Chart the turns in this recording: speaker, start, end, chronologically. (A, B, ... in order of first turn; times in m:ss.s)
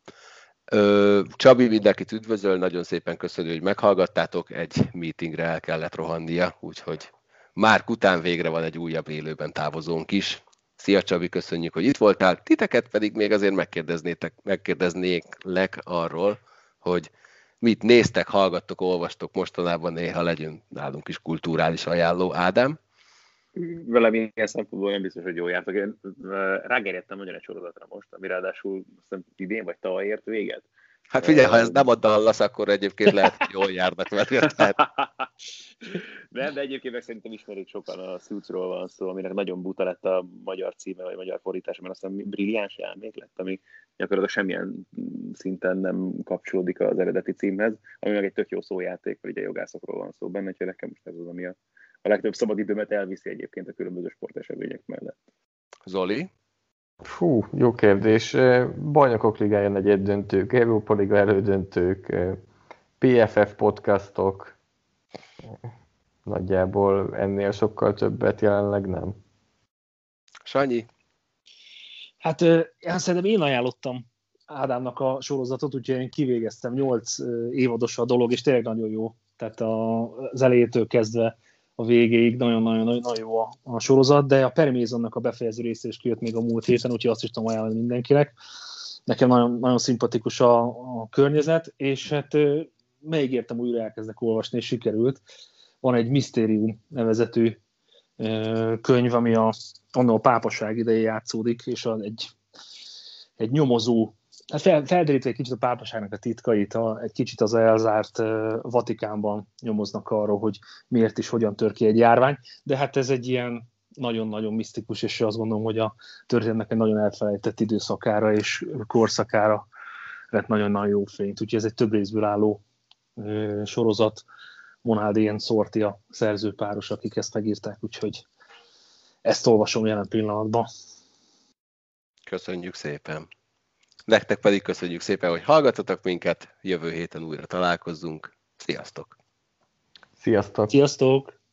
0:00.7-0:17.1 A
0:17.6-0:22.8 A
0:23.6-0:30.7 B
0:31.1-0:34.8 A
0:31.2-0:31.8 B
0:34.6-0:35.3 B
0:36.0-0:55.2 B
0:55.9-0:56.3 A
0:57.0-1:02.4 C
1:03.0-1:04.6 C
1:06.2-1:09.2 C
1:10.4-1:10.9 A
1:12.2-1:28.3 D
1:29.1-1:35.2 D
1:35.8-1:37.6 D
1:38.2-1:42.3 D
1:43.4-1:59.7 D
2:00.3-2:02.6 D
2:03.2-2:04.2 D
2:04.8-2:08.2 D
2:09.2-2:10.7 D
2:12.3-2:13.3 A
2:14.1-2:19.1 A
2:20.2-2:20.7 C
2:20.7-2:21.4 D